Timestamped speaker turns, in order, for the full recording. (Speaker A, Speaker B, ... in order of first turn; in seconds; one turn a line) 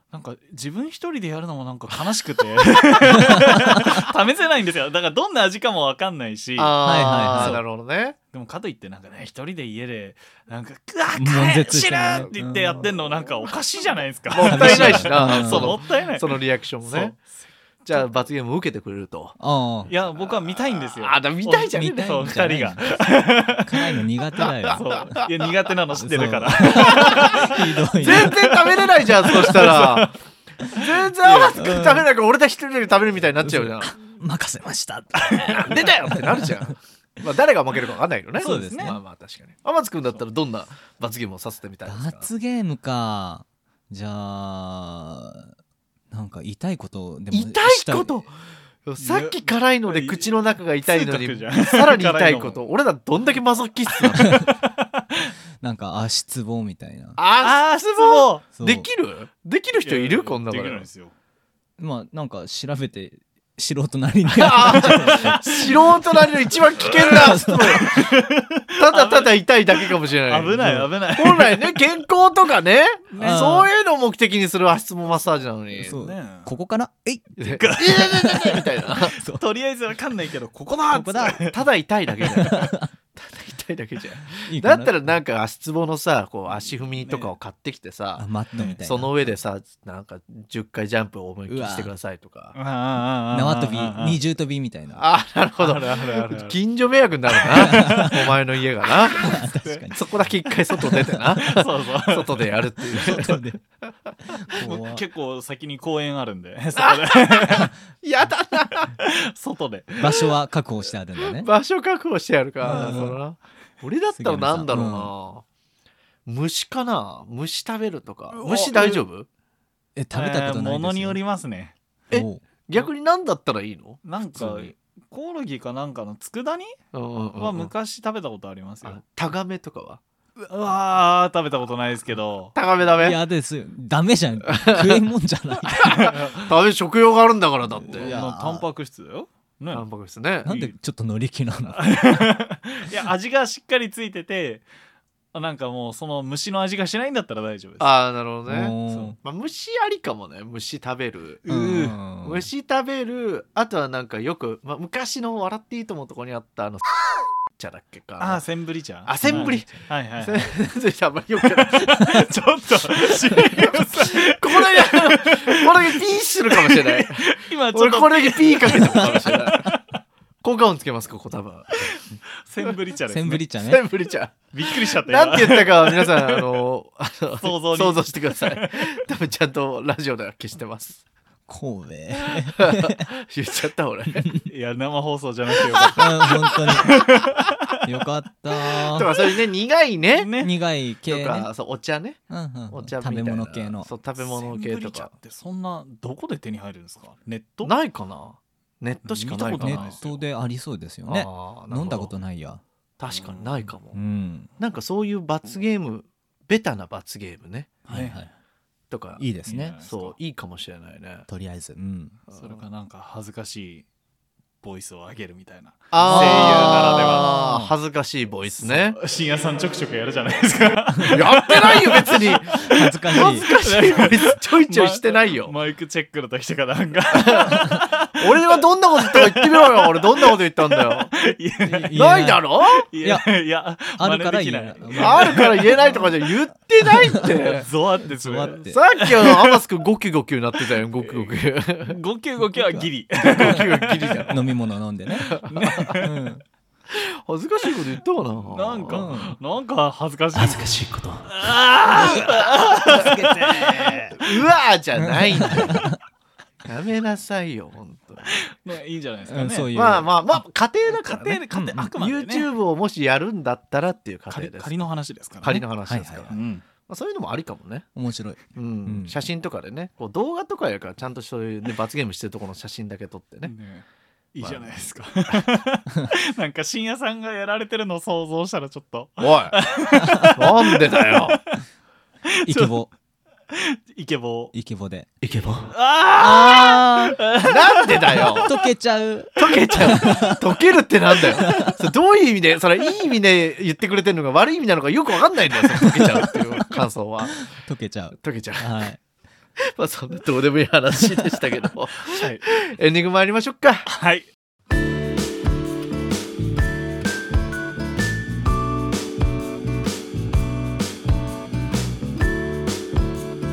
Speaker A: 0.1-7.6
Speaker B: 3.1-4.1
Speaker C: 6.6-8.2
Speaker B: 6.8-7.6
Speaker A: 8.3-17.4
Speaker B: 11.2-12.8
Speaker C: 14.3-17.2
Speaker B: 14.4-15.8
Speaker C: 17.9-19.4
Speaker B: 19.4-19.9
Speaker C: 19.9-22.1
Speaker A: 19.9-24.0
Speaker B: 21.7-23.0
Speaker B: 23.6-25.2
Speaker C: 24.7-25.3
Speaker A: 24.7-28.5
Speaker B: 25.9-28.7
Speaker C: 26.6-30.1
Speaker B: 29.4-30.0
Speaker A: 29.4-29.8
Speaker B: 30.6-32.1
Speaker C: 30.7-33.9
Speaker B: 33.4-36.6
Speaker C: 35.4-42.3
Speaker B: 38.4-39.0
Speaker A: 38.4-39.0
Speaker B: 41.9-45.5
Speaker B: 46.1-48.2
Speaker C: 47.3-48.3
Speaker C: 48.9-54.4
Speaker A: 49.0-50.3
Speaker A: 50.9-52.6
Speaker A: 53.9-55.3
Speaker B: 55.6-57.2
Speaker C: 57.2-60.9
Speaker A: 57.4-58.4
Speaker B: 58.6-58.9
Speaker A: 59.8-61.1
Speaker B: 61.8-68.0
Speaker C: 64.3-68.1
Speaker A: 64.7-65.4
Speaker A: 67.8-71.8
Speaker C: 68.8-76.0
Speaker B: 70.6-70.9
Speaker A: 73.1-73.6
Speaker B: 73.2-73.7
Speaker B: 75.8-77.7
Speaker A: 75.9-76.5
Speaker C: 77.4-79.2
Speaker A: 77.6-81.7
Speaker B: 78.8-79.4
Speaker B: 80.9-81.4
Speaker C: 81.0-88.3
Speaker B: 82.3-82.9
Speaker B: 84.5-84.9
Speaker A: 87.0-87.3
Speaker B: 88.2-89.3
Speaker A: 88.6-88.8
Speaker C: 88.8-92.6
Speaker B: 91.5-91.9
Speaker A: 92.5-94.2
Speaker B: 93.3-95.0
Speaker C: 94.9-99.4
Speaker A: 95.6-96.6
Speaker A: 97.3-98.2
Speaker B: 97.6-98.3
Speaker B: 99.0-101.4
Speaker A: 99.6-99.9
Speaker C: 99.9-103.4
Speaker A: 101.4-102.5
Speaker B: 102.9-103.6
Speaker B: 104.3-105.0
Speaker A: 104.5-107.7
Speaker C: 106.8-109.0
Speaker A: 109.0-110.3
Speaker B: 110.0-111.5
Speaker C: 111.2-115.4
Speaker B: 112.6-113.2
Speaker A: 112.7-113.1
Speaker B: 114.2-115.1
Speaker C: 116.3-119.3
Speaker A: 118.3-119.0
Speaker B: 120.0-121.2
Speaker A: 120.1-121.7
Speaker B: 122.1-122.4
Speaker C: 122.1-124.7
Speaker A: 124.0-126.8
Speaker C: 126.9-127.7
Speaker A: 127.4-129.0
Speaker C: 128.8-130.0
Speaker A: 130.4-132.5
Speaker C: 132.6-133.2
Speaker B: 133.0-136.1
Speaker C: 134.5-135.0
Speaker C: 135.6-138.2
Speaker A: 135.8-136.5
Speaker B: 137.8-138.7
Speaker A: 137.9-139.8
Speaker C: 139.7-140.6
Speaker B: 140.4-141.8
Speaker A: 140.5-140.7
Speaker A: 141.7-144.6
Speaker A: 145.3-148.0
Speaker C: 147.8-151.4
Speaker B: 148.5-149.2
Speaker A: 148.9-149.2
Speaker A: 151.4-152.0
Speaker B: 151.5-152.5
Speaker C: 152.2-156.9
Speaker C: 157.6-158.4
Speaker A: 158.2-160.5
Speaker C: 159.1-162.3
Speaker B: 159.2-159.6
Speaker A: 161.8-166.0
Speaker C: 162.9-169.7
Speaker A: 166.5-170.0
Speaker C: 170.4-172.0
Speaker A: 171.9-173.4
Speaker B: 173.1-173.8
Speaker C: 173.6-181.0
Speaker A: 174.5-176.6
Speaker A: 177.4-179.0
Speaker B: 181.5-183.1
Speaker C: 182.5-184.4
Speaker A: 184.4-187.8
Speaker C: 185.6-187.0
Speaker B: 186.0-187.2
Speaker B: 187.8-189.1
Speaker C: 188.9-190.3
Speaker A: 190.1-190.6
Speaker B: 190.4-191.5
Speaker C: 191.1-195.1
Speaker B: 192.3-193.9
Speaker A: 194.2-197.7
Speaker C: 197.6-200.0
Speaker A: 199.1-200.2
Speaker B: 199.6-202.6
Speaker C: 201.1-202.1
Speaker C: 203.0-204.0
Speaker A: 203.1-203.7
Speaker B: 203.9-204.5
Speaker C: 204.6-207.8
Speaker B: 207.9-208.3
Speaker A: 207.9-208.2
Speaker C: 208.9-209.2
Speaker B: 209.2-209.8
Speaker A: 209.5-210.1
Speaker C: 209.8-211.3
Speaker B: 211.3-212.2
Speaker C: 212.3-212.6
Speaker A: 212.3-213.8
Speaker A: 214.6-217.3
Speaker C: 215.9-219.0
Speaker B: 216.0-217.7
Speaker A: 218.6-222.4
Speaker C: 221.1-225.5
Speaker B: 222.7-223.5
Speaker A: 223.4-236.1
Speaker C: 227.1-231.2
Speaker B: 231.7-232.4
Speaker C: 231.9-232.9
Speaker B: 233.0-233.3
Speaker B: 234.0-235.9
Speaker C: 235.0-237.7
Speaker B: 236.9-237.3
Speaker A: 237.4-239.6
Speaker B: 238.0-238.8
Speaker C: 238.7-242.0
Speaker A: 241.0-244.2
Speaker B: 242.5-243.7
Speaker C: 243.2-244.4
Speaker B: 244.3-246.4
Speaker C: 245.2-246.0
Speaker A: 245.5-246.1
Speaker C: 246.9-249.1
Speaker A: 248.5-250.7
Speaker B: 248.9-249.4
Speaker C: 250.3-251.3
Speaker A: 251.3-254.2
Speaker B: 251.9-254.2
Speaker C: 251.9-255.9
Speaker B: 255.0-256.0
Speaker C: 256.6-258.4
Speaker A: 258.2-259.8
Speaker B: 259.3-260.1
Speaker C: 259.7-261.4
Speaker A: 260.9-262.5
Speaker B: 261.5-261.9
Speaker C: 261.9-264.7
Speaker A: 264.3-265.6
Speaker C: 265.4-266.4
Speaker B: 265.5-266.3
Speaker A: 266.3-266.6
Speaker C: 266.9-267.9
Speaker B: 267.9-269.2
Speaker C: 268.5-273.5
Speaker A: 273.4-281.6
Speaker C: 274.4-274.8
Speaker C: 279.2-279.6
Speaker B: 279.9-280.3
Speaker C: 280.4-281.4
Speaker A: 282.4-282.9
Speaker B: 282.5-282.9
Speaker A: 283.5-284.5
Speaker B: 284.5-285.1
Speaker C: 285.2-285.7
Speaker A: 285.7-288.6
Speaker B: 286.2-287.2
Speaker C: 287.4-288.5
Speaker B: 288.2-290.4
Speaker C: 289.4-297.5
Speaker B: 291.4-291.8
Speaker B: 295.8-296.4
Speaker B: 297.5-299.0
Speaker C: 298.2-298.9
Speaker C: 299.6-303.9
Speaker B: 301.1-301.4
Speaker A: 302.0-302.4
Speaker A: 303.9-304.3